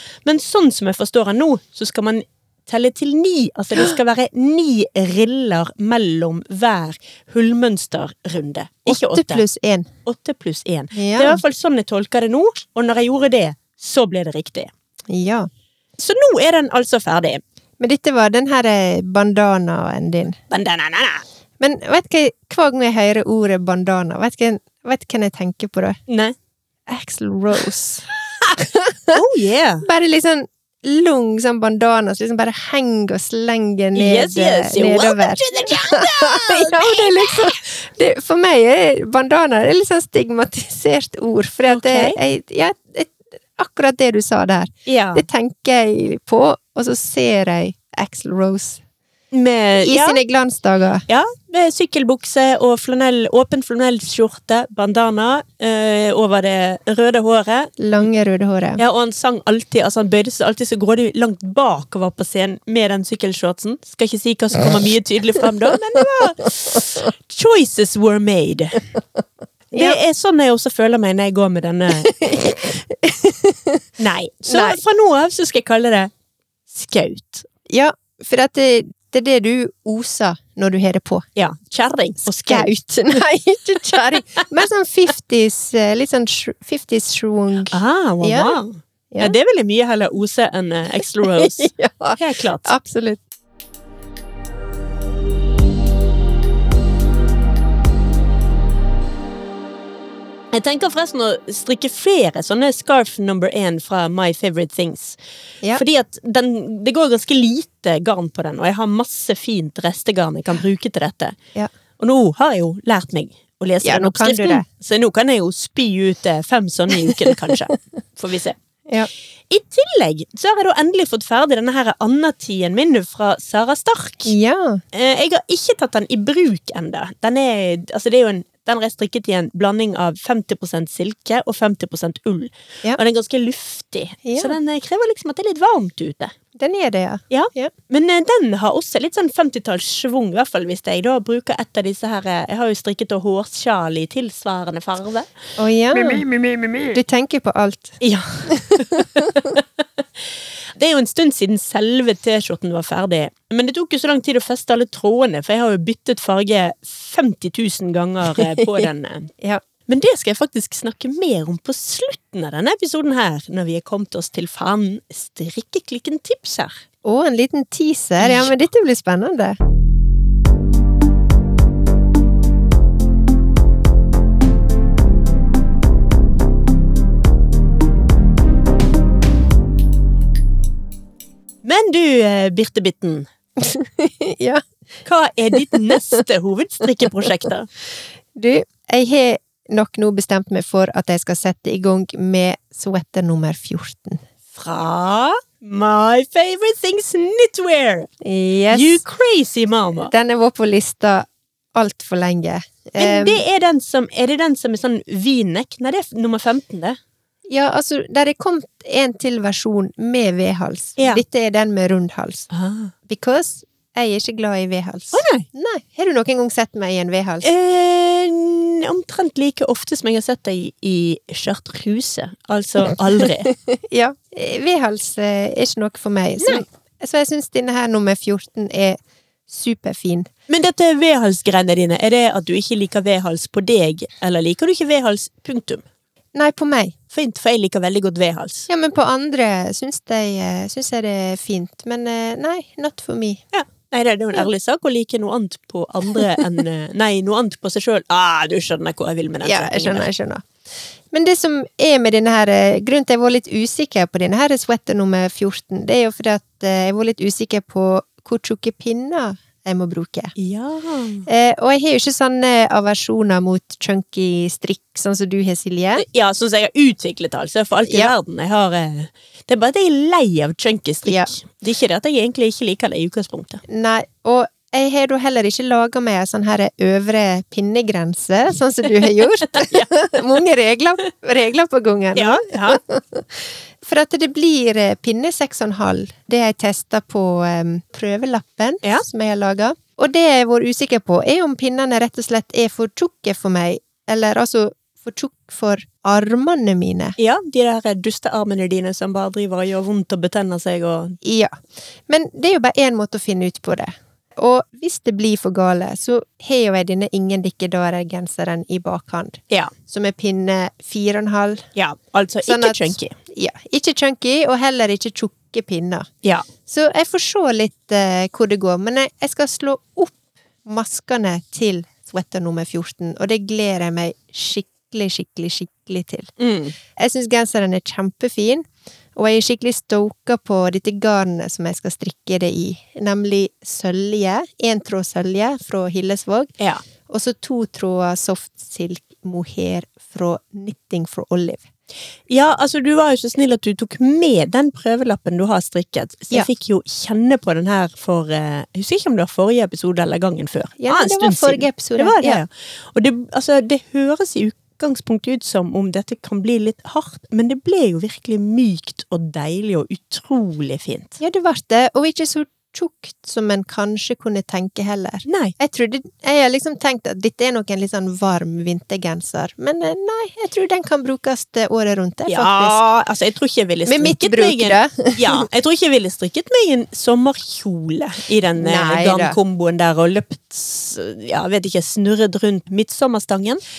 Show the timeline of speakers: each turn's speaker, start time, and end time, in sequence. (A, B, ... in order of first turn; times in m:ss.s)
0:00.2-0:09.4 A
0:08.9-0:09.9 B
0:10.1-0:14.7 A
0:11.0-0:11.4 B
0:15.1-0:15.5 B
0:16.0-0:17.4 A
0:17.8-0:20.4 B
0:20.5-0:21.2 A
0:21.6-0:26.0 B
0:26.1-0:26.4 A
0:26.9-0:29.1 B
0:29.1-0:29.9 A
0:29.8-0:48.8 B
0:34.0-0:37.6 A
0:41.7-0:42.2 A
0:44.9-0:45.2 A
0:49.3-0:50.2 A
0:49.8-0:51.0 B
0:51.1-0:58.0 A
0:57.8-0:58.8 B
0:58.8-1:08.8 A
1:09.7-1:10.0 B
1:09.7-1:12.2 A
1:12.0-1:13.8 B
1:14.0-1:16.1 A
1:14.5-1:14.8 B
1:16.7-1:17.5 A
1:17.7-1:21.3 B
1:21.4-1:22.7 A
1:22.2-1:28.6 B
1:27.7-1:32.7 A
1:31.3-1:33.2 B
1:40.5-1:45.2 A
1:45.7-1:51.4 A
1:52.0-1:58.6 A
1:53.8-1:54.6 B
1:59.5-2:04.3 A
2:04.3-2:04.8 B
2:04.9-2:16.3 A
2:14.2-2:14.5 B
2:16.6-2:17.7 B
2:17.3-2:25.3 A
2:25.6-2:26.3 B
2:25.9-2:27.0 A
2:26.9-2:29.6 B
2:28.0-2:39.3 A
2:38.4-2:38.8 B
2:39.9-2:46.8 A
2:47.0-2:49.6 B
2:48.2-2:48.5 A
3:01.6-3:03.3 A
3:03.6-3:04.6 B
3:05.1-3:07.7 A
3:05.6-3:06.2 B
3:08.4-3:14.2 B
3:14.5-3:18.1 A
3:18.2-3:19.0 B
3:18.7-3:20.1 A
3:20.1-3:23.4 B
3:23.0-3:27.0 A
3:27.5-3:32.5 B
3:31.0-3:31.2 A
3:32.5-3:32.9 A
3:33.1-3:37.5 B
3:35.1-3:35.4 A
3:37.4-3:43.5 A
3:43.4-3:50.3 B
3:50.5-3:55.8 A
3:56.4-3:57.0 B
3:57.1-3:58.7 A
3:58.7-4:03.4 B
4:03.5-4:10.1 A
4:09.4-4:10.5 B
4:11.1-4:20.3 B
4:20.4-4:21.3 A
4:21.3-4:26.0 B
4:26.0-4:33.6 A
4:27.9-4:28.1 B
4:33.7-4:57.2 B
4:39.5-4:39.9 A
4:42.2-4:42.8 A
4:57.2-5:01.2 A
5:01.2-5:11.7 B
5:11.8-5:13.2 A
5:12.4-5:16.1 B
5:16.7-5:26.3 B
5:26.4-5:26.7 A
5:27.0-5:36.5 B
5:37.1-5:41.6 B
5:42.3-6:01.2 A
5:50.8-5:52.4 B
6:01.2-6:12.8 B
6:05.3-6:05.6 A
6:12.3-6:23.6 A
6:13.9-6:15.5 B
6:18.6-6:19.4 B